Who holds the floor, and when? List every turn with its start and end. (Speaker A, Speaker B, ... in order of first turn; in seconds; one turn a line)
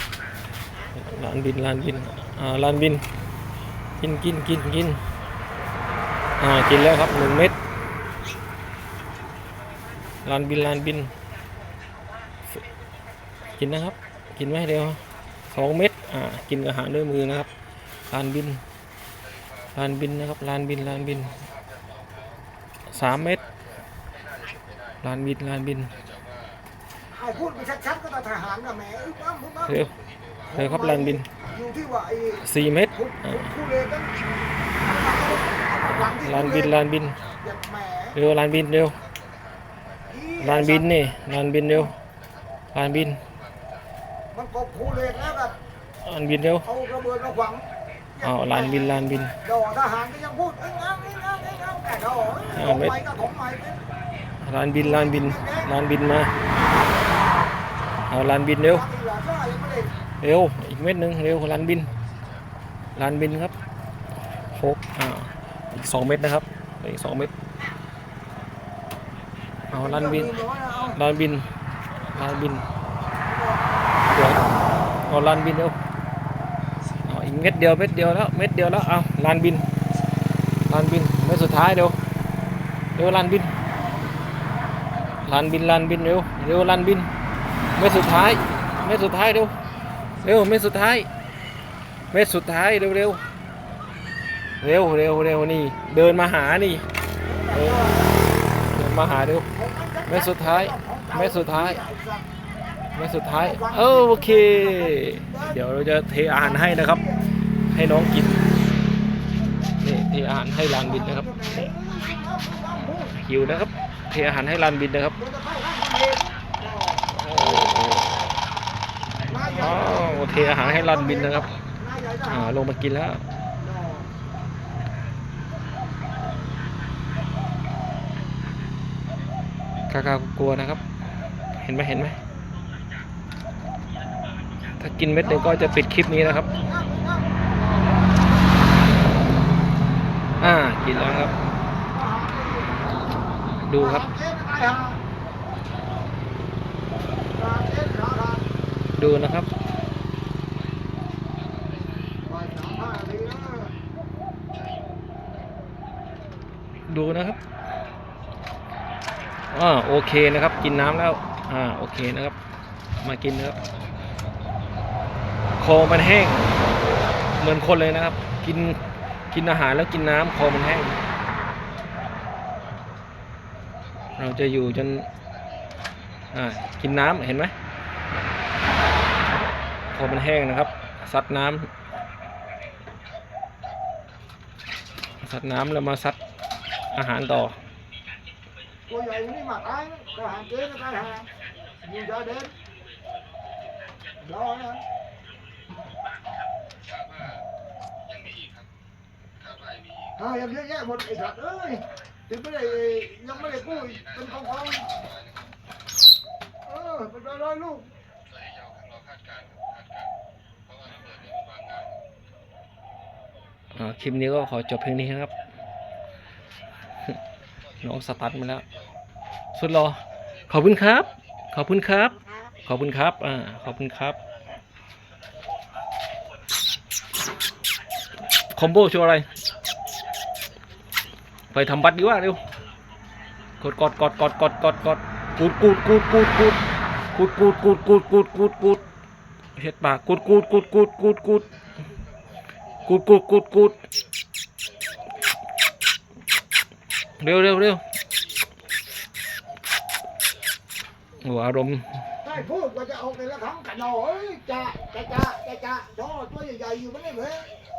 Speaker A: 0.9-3.0
Speaker A: 4.0-5.0
Speaker A: 6.4-7.6
Speaker A: 10.2-11.1
Speaker A: 13.6-17.5
Speaker A: 18.1-18.6
Speaker A: 19.7-21.4
Speaker A: 22.9-23.4
Speaker A: 25.0-25.9
Speaker B: 27.1-29.8
Speaker A: 29.7-29.9
Speaker A: 30.5-31.3
Speaker B: 30.5-34.2
Speaker A: 32.4-33.5
Speaker B: 34.8-36.8
Speaker A: 36.1-37.2
Speaker B: 37.4-38.2
Speaker A: 38.1-39.0
Speaker B: 40.0-40.9
Speaker A: 40.4-41.9
Speaker A: 42.7-43.2
Speaker B: 44.3-45.6
Speaker A: 46.0-46.7
Speaker B: 46.6-53.8
Speaker A: 48.2-49.4
Speaker A: 52.5-53.0
Speaker A: 54.4-56.3
Speaker B: 54.8-55.7
Speaker A: 58.1-58.9
Speaker B: 58.7-59.9
Speaker A: 60.2-61.9
Speaker A: 63.0-63.5
Speaker A: 64.5-67.3
Speaker A: 69.7-71.5
Speaker B: 69.7-71.0
Speaker A: 72.0-72.7
Speaker B: 73.2-73.7
Speaker A: 74.1-74.5
Speaker A: 75.0-75.8
Speaker A: 77.0-79.6
Speaker A: 80.7-82.0
Speaker A: 83.0-83.5
Speaker A: 85.2-87.1
Speaker A: 87.8-89.5
Speaker A: 90.2-91.1
Speaker A: 92.1-93.2
Speaker A: 94.6-96.8
Speaker B: 97.2-98.3
Speaker A: 97.5-97.8
Speaker A: 98.7-99.5
Speaker B: 99.5-102.3
Speaker A: 100.1-101.8
Speaker A: 102.9-107.0
Speaker B: 103.3-105.6
Speaker B: 106.3-107.3
Speaker A: 107.7-108.4
Speaker A: 109.8-111.3
Speaker B: 110.8-113.2
Speaker A: 113.2-115.2
Speaker B: 115.2-117.1
Speaker A: 117.1-118.3
Speaker B: 119.3-122.5
Speaker A: 119.5-121.5
Speaker A: 122.2-123.2
Speaker B: 123.6-124.1
Speaker A: 129.9-130.8
Speaker A: 131.6-132.2
Speaker A: 134.8-136.5
Speaker B: 135.2-138.5
Speaker A: 140.4-141.4
Speaker B: 140.9-143.1
Speaker A: 143.6-144.1
Speaker B: 143.8-145.0
Speaker B: 147.3-148.5
Speaker A: 148.9-149.5
Speaker B: 152.2-153.7
Speaker A: 156.9-157.4
Speaker A: 159.5-162.3
Speaker A: 163.0-163.6
Speaker A: 165.6-166.6
Speaker A: 167.4-168.8
Speaker A: 169.3-171.0
Speaker A: 174.2-175.1
Speaker A: 176.3-177.5
Speaker A: 179.9-181.7
Speaker A: 185.2-186.2
Speaker A: 186.9-187.6
Speaker B: 188.9-191.3
Speaker B: 191.8-192.5
Speaker B: 194.2-194.8
Speaker B: 200.1-205.0
Speaker B: 206.7-207.9
Speaker A: 213.7-215.3
Speaker A: 217.8-218.6
Speaker A: 219.5-224.2
Speaker A: 228.5-229.2
Speaker A: 231.5-232.4
Speaker A: 233.6-236.6
Speaker A: 237.1-238.8
Speaker A: 239.6-241.5
Speaker A: 242.8-243.8
Speaker A: 247.2-247.8
Speaker A: 251.2-252.0
Speaker B: 252.2-257.5